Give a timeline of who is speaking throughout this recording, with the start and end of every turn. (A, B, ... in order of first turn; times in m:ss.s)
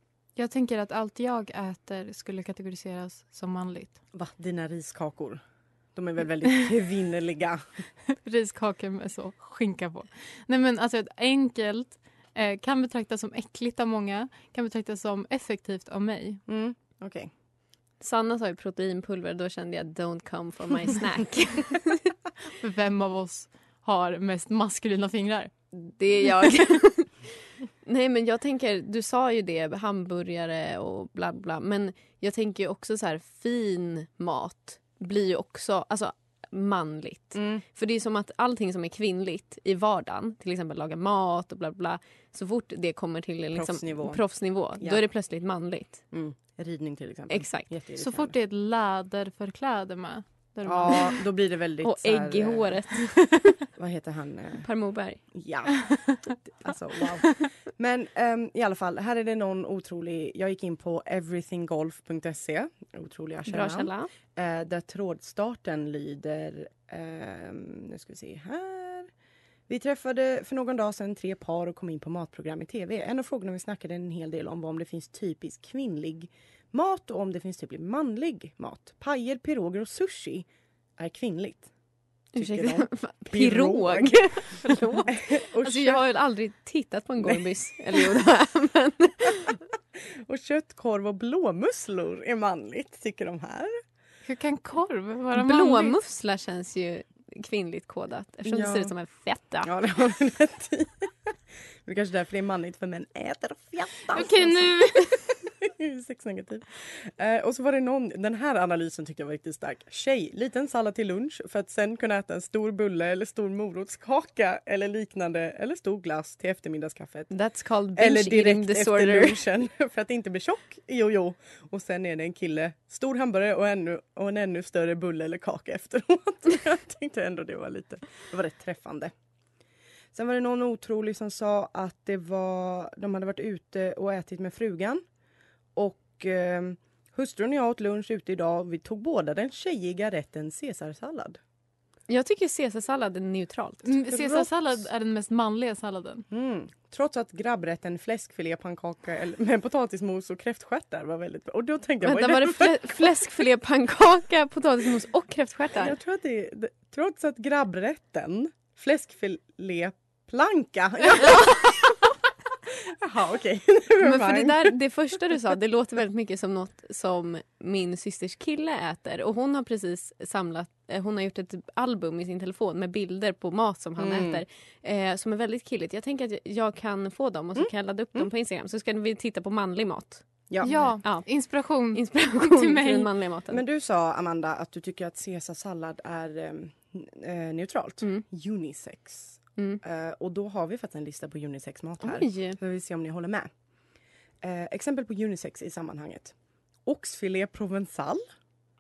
0:00.4-0:04.0 A
0:04.1-0:05.4 B
0:06.0-0:07.6 B
0:08.2-0:16.4 A
0:16.5-0:17.3 B
0:18.0-0:22.1 C
0:22.6-0:25.5 A
0:25.7-0:27.2 C
0:27.8-0:46.0 C
0:37.4-0:37.6 B
0:43.5-0:44.2 B
0:46.1-0:48.4 B
0:47.3-0:47.7 C
0:48.0-0:51.2 A
0:50.6-0:52.8 B
0:51.8-0:53.2 C
0:53.8-0:54.7 B
0:54.6-0:55.2 C
0:55.3-1:09.1 B
0:55.9-0:56.1 A
1:03.5-1:04.1 C
1:09.7-1:20.5 B
1:21.0-1:21.7 B
1:22.4-1:24.4 B
1:22.4-1:29.6 C
1:25.1-1:26.1 B
1:27.2-1:28.0 B
1:30.2-1:33.8 B
1:34.2-1:36.0 A
1:35.3-1:39.7 C
1:38.5-1:38.9 B
1:39.6-1:44.7 B
1:44.1-1:45.4 A
1:45.6-1:57.3 B
1:57.3-1:59.4 C
1:58.0-2:09.1 B
2:10.1-2:15.0 B
2:15.8-2:21.4 B
2:22.1-2:23.9 C
2:23.8-2:26.2 A
2:24.1-2:24.8 B
2:26.3-2:33.1 B
2:32.0-2:36.0 C
2:35.8-2:41.8 B
2:42.7-2:44.8 B
2:44.0-3:01.3 C
2:54.0-2:54.4 B
2:57.6-2:58.3 B
3:00.5-3:01.0 B
3:00.6-3:03.1 A
3:01.9-3:03.6 C
3:03.5-3:13.5 B
3:12.0-3:12.6 C
3:14.4-3:16.4 B
3:16.9-3:18.2 B